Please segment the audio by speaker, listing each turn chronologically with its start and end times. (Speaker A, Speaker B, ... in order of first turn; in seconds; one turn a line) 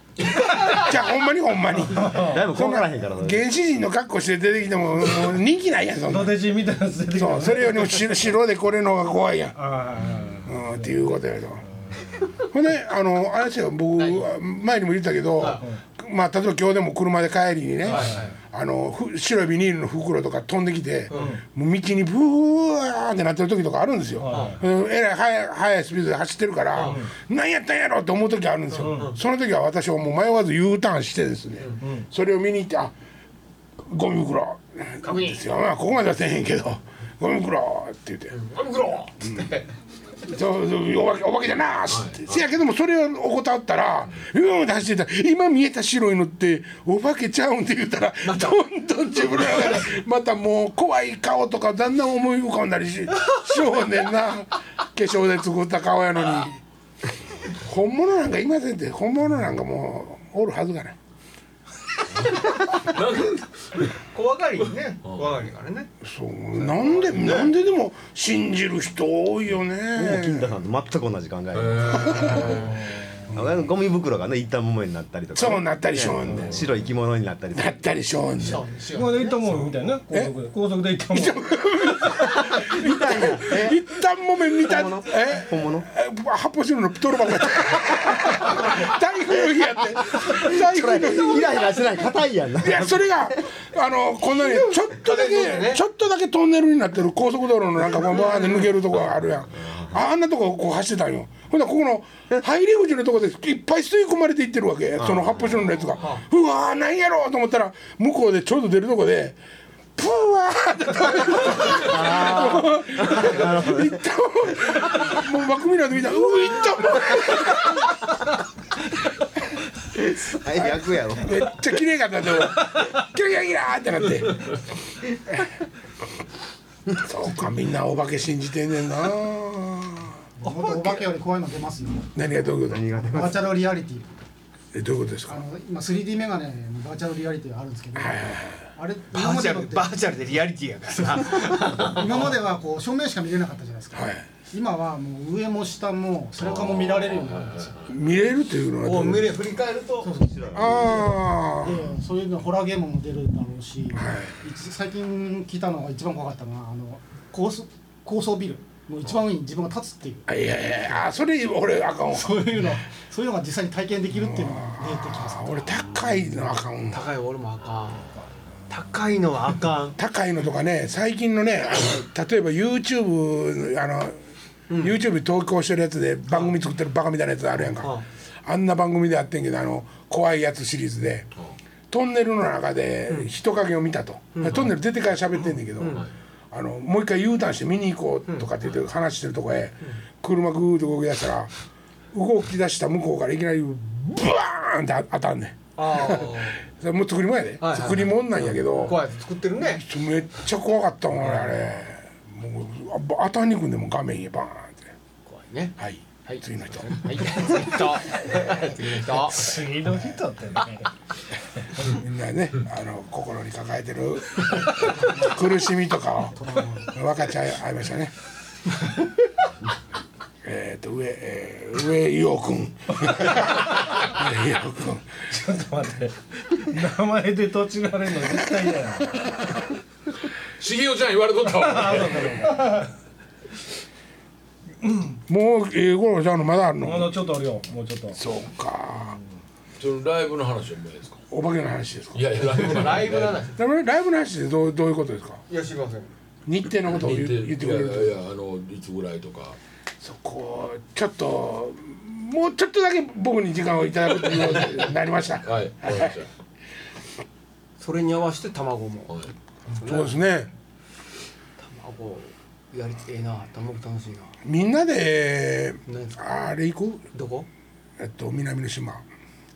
Speaker A: 0.3-0.9
Speaker B: 0.7-6.5
Speaker C: 1.9-2.5
Speaker D: 2.2-3.5
Speaker C: 6.1-8.0
Speaker B: 7.1-9.6
Speaker C: 9.6-11.0
Speaker E: 10.0-10.4
Speaker B: 10.5-11.6
Speaker B: 12.5-32.9
Speaker A: 14.0-14.3
Speaker A: 15.4-15.6
Speaker A: 17.9-18.4
Speaker C: 18.0-18.3
Speaker A: 21.1-21.4
Speaker C: 21.1-21.4
Speaker C: 24.2-24.6
Speaker A: 24.3-24.6
Speaker A: 26.7-27.0
Speaker C: 26.9-27.1
Speaker A: 28.7-29.2
Speaker C: 28.8-29.1
Speaker B: 33.8-38.4
Speaker A: 35.0-35.4
Speaker A: 38.3-39.7
Speaker B: 40.3-56.6
Speaker E: 41.9-42.5
Speaker A: 48.2-48.6
Speaker A: 49.2-49.8
Speaker B: 57.6-61.0
Speaker E: 62.1-63.9
Speaker A: 64.1-65.9
Speaker E: 65.0-65.4
Speaker B: 66.0-70.5
Speaker A: 66.6-67.5
Speaker D: 69.9-72.6
Speaker E: 71.5-72.8
Speaker B: 72.2-72.5
Speaker D: 73.3-77.8
Speaker B: 75.3-76.7
Speaker E: 76.3-76.6
Speaker B: 77.5-78.6
Speaker A: 78.4-79.6
Speaker C: 78.9-81.4
Speaker B: 81.1-91.8
Speaker D: 82.2-83.8
Speaker D: 84.6-85.9
Speaker D: 90.2-93.4
Speaker B: 92.6-109.4
Speaker A: 94.4-95.8
Speaker A: 98.1-98.7
Speaker D: 99.6-100.0
Speaker D: 105.0-105.9
Speaker A: 106.0-106.3
Speaker B: 110.0-117.9
Speaker D: 111.7-115.1
Speaker D: 119.9-121.8
Speaker B: 121.2-124.5
Speaker B: 127.0-130.2
Speaker F: 130.4-132.1
Speaker A: 130.4-131.1
Speaker B: 132.2-132.9
Speaker D: 132.7-133.6
Speaker F: 133.0-134.1
Speaker B: 134.7-135.4
Speaker F: 135.3-140.0
Speaker B: 138.0-138.6
Speaker A: 139.1-142.4
Speaker F: 141.3-147.8
Speaker B: 143.9-144.2
Speaker E: 146.4-148.2
Speaker B: 147.9-149.5
Speaker A: 148.8-150.1
Speaker F: 150.0-151.1
Speaker D: 150.3-151.1
Speaker B: 150.5-151.9
Speaker F: 151.6-160.3
Speaker B: 153.9-154.3
Speaker B: 160.3-162.7
Speaker F: 162.1-166.4
Speaker B: 164.2-167.1
Speaker A: 166.9-168.2
Speaker A: 168.7-170.0
Speaker B: 170.0-174.2
Speaker A: 174.7-175.0
Speaker B: 174.8-181.3
Speaker A: 176.3-176.5
Speaker A: 177.7-178.1
Speaker B: 181.9-191.5
Speaker A: 184.3-184.7
Speaker A: 185.8-186.1
Speaker B: 192.1-199.1
Speaker A: 195.8-196.6
Speaker A: 197.6-199.8
Speaker B: 199.6-204.9
Speaker A: 201.2-201.6
Speaker A: 205.3-209.6
Speaker B: 205.8-207.5
Speaker C: 209.2-210.9
Speaker B: 211.8-218.1
Speaker B: 220.4-225.1
Speaker C: 225.3-229.1
Speaker E: 230.6-232.7
Speaker C: 231.5-232.9
Speaker C: 234.8-235.1
Speaker B: 235.3-237.2
Speaker C: 236.8-238.2
Speaker B: 238.1-239.2
Speaker E: 239.8-241.2
Speaker B: 241.3-245.4
Speaker E: 242.1-243.5
Speaker A: 242.4-243.6
Speaker A: 245.5-246.1
Speaker B: 246.5-248.1
Speaker E: 246.9-249.6
Speaker B: 250.0-256.1
Speaker E: 255.4-256.3
Speaker A: 257.8-260.1
Speaker E: 259.1-259.3
Speaker B: 259.8-260.5
Speaker A: 261.6-264.3
Speaker B: 264.4-267.0
Speaker A: 265.9-266.2
Speaker A: 267.1-267.5
Speaker B: 268.0-269.0